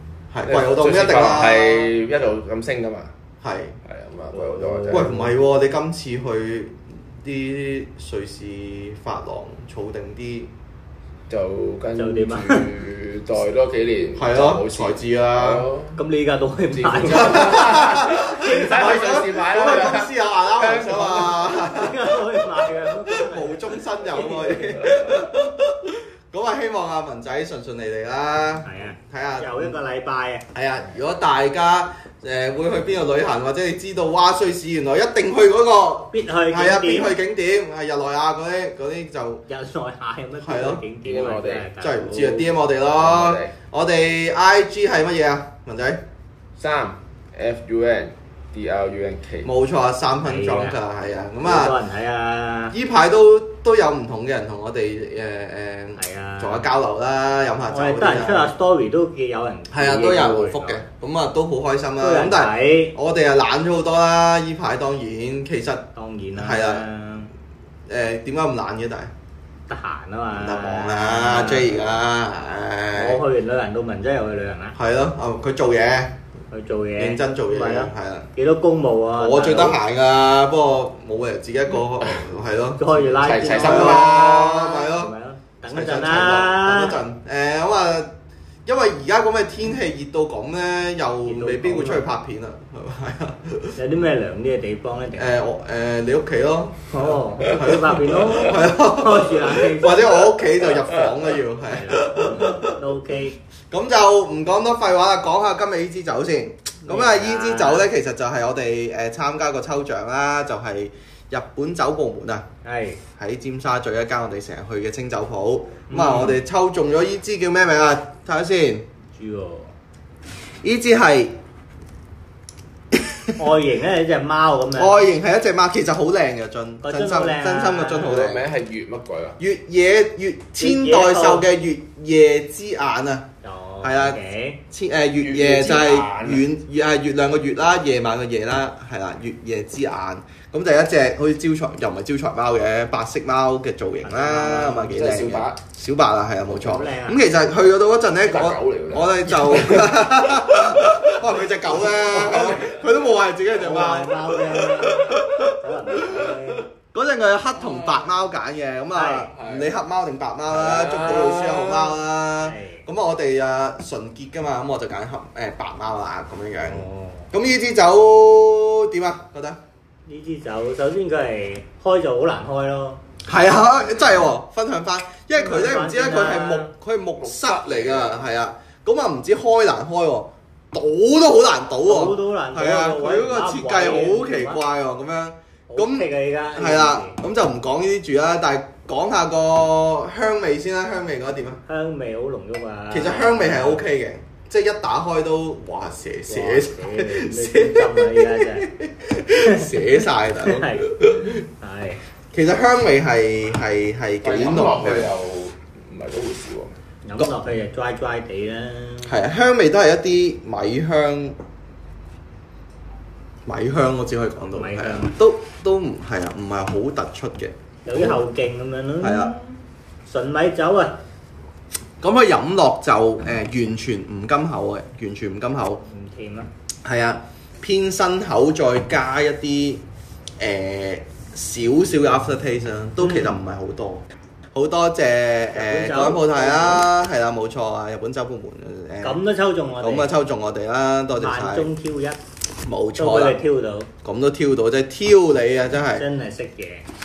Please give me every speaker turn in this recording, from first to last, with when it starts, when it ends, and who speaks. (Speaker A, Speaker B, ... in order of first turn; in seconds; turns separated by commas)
Speaker A: 0.3-1.9, Speaker B: 0.4-3.1, Speaker A: 3.4-3.8, Speaker B: 3.8-5.2, Speaker C: 4.3-5.3, Speaker A: 4.9-10.5, Speaker B: 11.3-16.0, Speaker C: 12.0-12.7, Speaker A: 14.2-15.7, Speaker C: 15.9-19.0, Speaker B: 16.7-21.6, Speaker A: 17.1-22.1, Speaker C: 21.6-24.9, Speaker A: 23.1-29.8, Speaker C: 28.6-30.4, Speaker A: 30.5-39.4, Speaker C: 36.1-37.1, Speaker C: 39.5-42.2, Speaker A: 40.4-40.8, Speaker B: 41.0-43.5, Speaker A: 41.8-46.0, Speaker B: 46.6-49.5, Speaker A: 49.4-51.8, Speaker C: 50.2-50.8, Speaker C: 51.4-52.7, Speaker A: 52.7-58.5, Speaker C: 56.0-56.7, Speaker C: 57.7-60.9, Speaker A: 59.7-66.8, Speaker C: 62.0-63.0, Speaker C: 66.0-67.3, Speaker A: 67.9-69.1, Speaker C: 69.7-71.9, Speaker A: 70.3-73.2, Speaker C: 72.9-74.8, Speaker A: 74.8-76.1, Speaker C: 76.5-79.8, Speaker A: 77.0-78.3, Speaker A: 79.2-82.8, Speaker C: 82.8-87.0, Speaker B: 83.1-84.2, Speaker A: 83.5-85.1, Speaker A: 85.7-88.1, Speaker A: 88.7-93.8, Speaker C: 91.2-92.1, Speaker C: 93.8-95.4, Speaker A: 95.2-102.8, Speaker C: 96.9-100.3, Speaker C: 101.7-103.3, Speaker A: 103.7-112.5, Speaker C: 106.8-107.9, Speaker C: 112.6-113.0, Speaker A: 113.2-118.8, Speaker C: 115.9-116.4, Speaker C: 119.1-119.7, Speaker A: 120.6-121.3, Speaker A: 122.9-123.3, Speaker C: 123.4-125.1, Speaker A: 124.7-128.4, Speaker C: 126.8-128.2, Speaker B: 128.0-129.4, Speaker A: 129.4-133.3, Speaker C: 130.6-131.5, Speaker C: 133.4-134.6, Speaker A: 133.8-134.2, Speaker A: 134.7-156.3, Speaker B: 135.2-136.4, Speaker C: 144.0-144.9, Speaker B: 144.9-145.6, Speaker C: 146.5-147.2, Speaker B: 148.2-150.4, Speaker B: 151.7-152.8, Speaker C: 153.6-156.7, Speaker A: 156.9-169.6, Speaker B: 157.7-158.0, Speaker C: 158.9-159.3, Speaker B: 159.3-159.7, Speaker B: 160.5-162.0, Speaker C: 162.4-162.8, Speaker C: 166.6-167.3, Speaker C: 170.1-173.0, Speaker A: 173.2-191.6, Speaker C: 175.3-176.7, Speaker B: 177.2-178.2, Speaker C: 181.8-184.6, Speaker C: 185.7-187.2, Speaker C: 191.7-193.8, Speaker A: 192.9-201.4, Speaker C: 196.3-198.7, Speaker C: 199.4-202.0, Speaker A: 202.3-205.1, Speaker B: 204.2-206.7, Speaker C: 207.0-209.2, Speaker A: 209.1-211.4, Speaker A: 213.4-218.2, Speaker C: 214.5-215.1, Speaker C: 217.8-221.0, Speaker A: 219.0-219.3, Speaker A: 222.0-225.8, Speaker C: 225.9-226.5, Speaker A: 226.8-229.8, Speaker A: 230.4-239.2, Speaker C: 235.5-236.8, Speaker C: 239.0-240.1, Speaker A: 239.8-241.7, Speaker C: 241.2-242.2, Speaker A: 242.6-243.4, Speaker C: 243.0-243.9, Speaker A: 244.0-246.1, Speaker C: 245.9-246.8